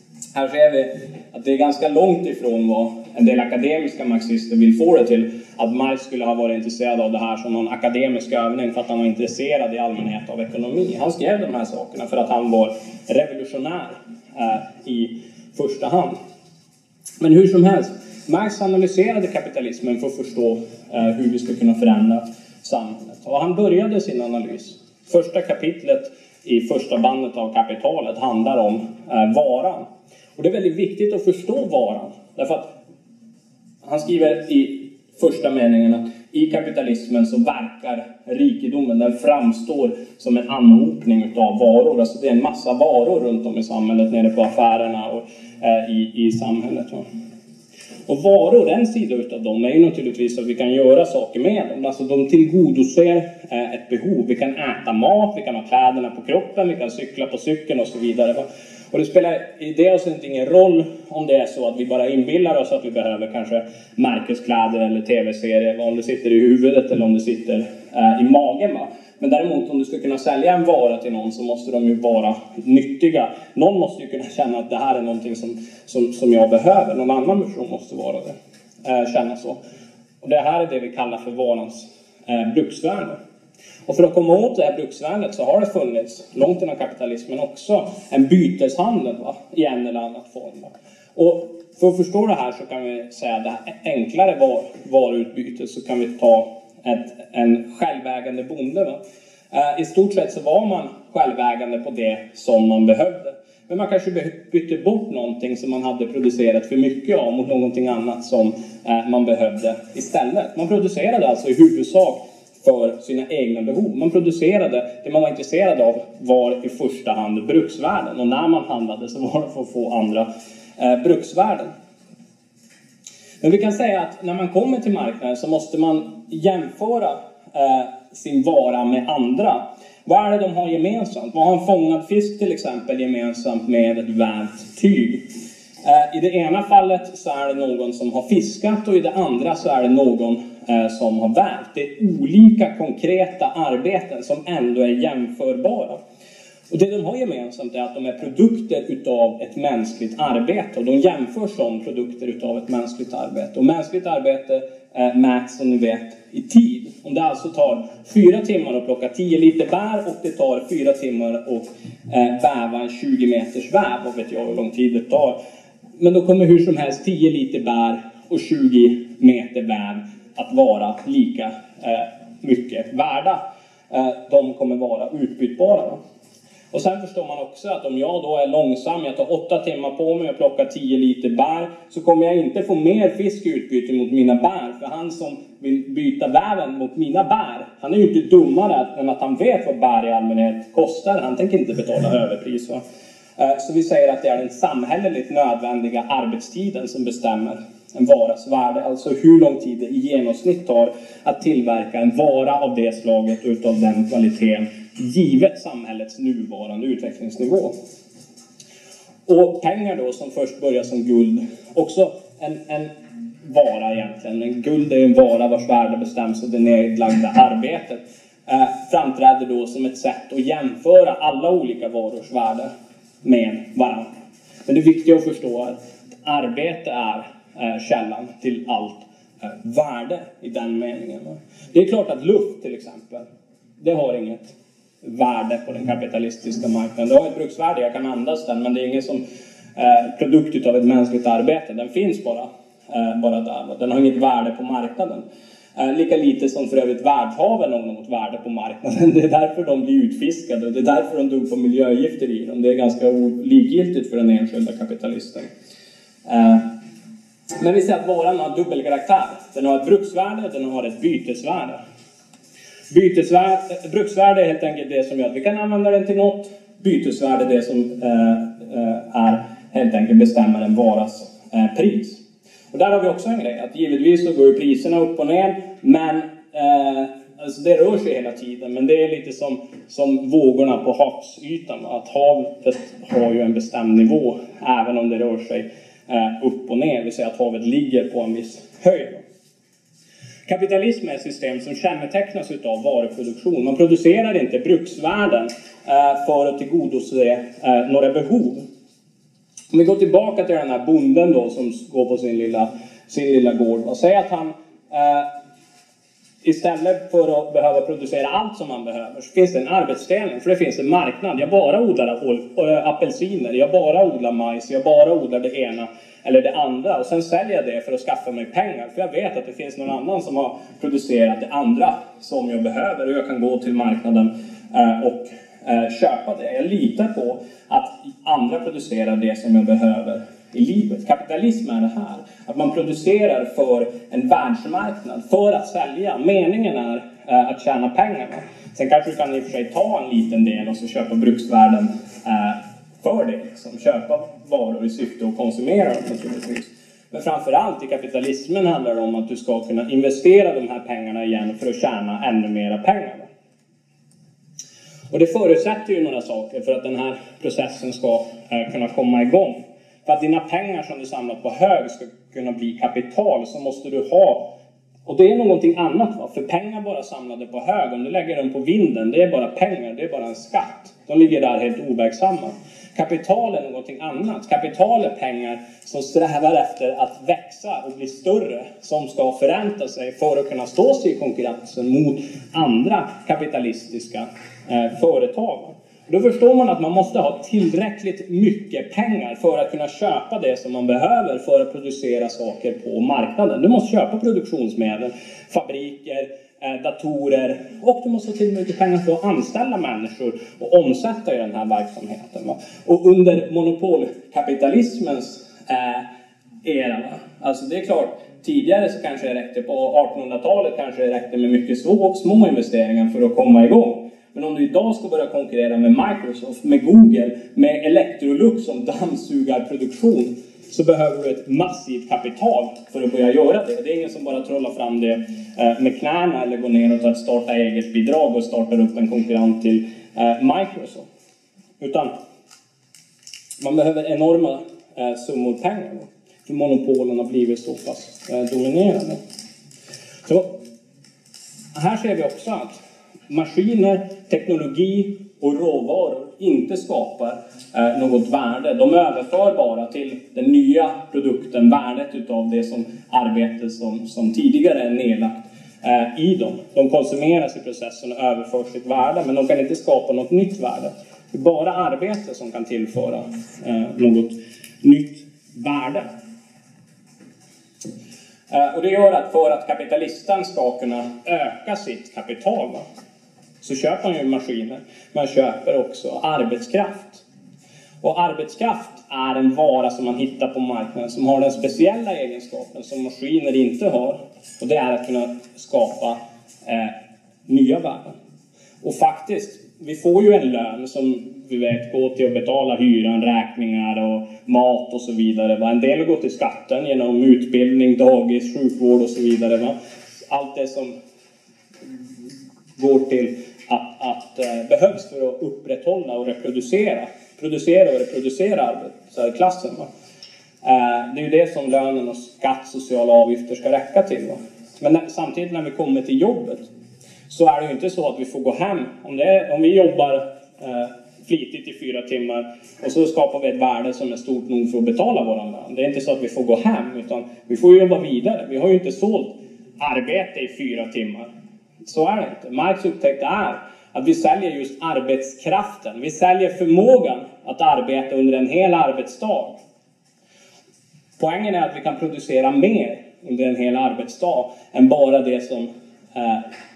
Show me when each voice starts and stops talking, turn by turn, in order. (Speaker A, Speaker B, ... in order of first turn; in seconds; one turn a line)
Speaker A: 0.3-16.2
Speaker A: 17.2-29.9
Speaker A: 30.4-32.8
Speaker A: 33.8-47.0
Speaker A: 48.1-79.6
Speaker A: 80.2-83.2
Speaker A: 83.9-99.0
Speaker A: 99.5-121.7
Speaker A: 123.4-135.3
Speaker A: 135.8-146.0
Speaker A: 146.7-165.4
Speaker A: 166.0-176.0
Speaker A: 176.7-192.8
Speaker A: 193.4-207.7
Speaker A: 209.3-212.9
Speaker A: 213.4-222.7
Speaker A: 223.2-224.1
Speaker A: 224.7-233.3
Speaker A: 233.8-239.2
Speaker A: 239.8-245.2
Speaker A: 245.8-255.5
Speaker A: 256.2-256.7
Speaker A: 257.6-261.8
Speaker A: 262.9-289.2
Speaker A: 290.5-298.6
Speaker A: 299.7-305.3
Speaker A: 306.4-353.3
Speaker A: 355.1-364.5
Speaker A: 365.1-406.1
Speaker A: 406.6-431.1
Speaker A: 431.8-432.2
Speaker A: 433.6-439.2
Speaker A: 440.2-440.6
Speaker A: 441.7-466.1
Speaker A: 468.5-472.8
Speaker A: 473.6-477.2
Speaker A: 478.0-487.0
Speaker A: 487.5-488.2
Speaker A: 488.8-499.8
Speaker A: 500.3-500.9
Speaker A: 502.8-509.9
Speaker A: 510.6-516.7
Speaker A: 517.3-531.3
Speaker A: 531.8-539.6
Speaker A: 541.2-546.5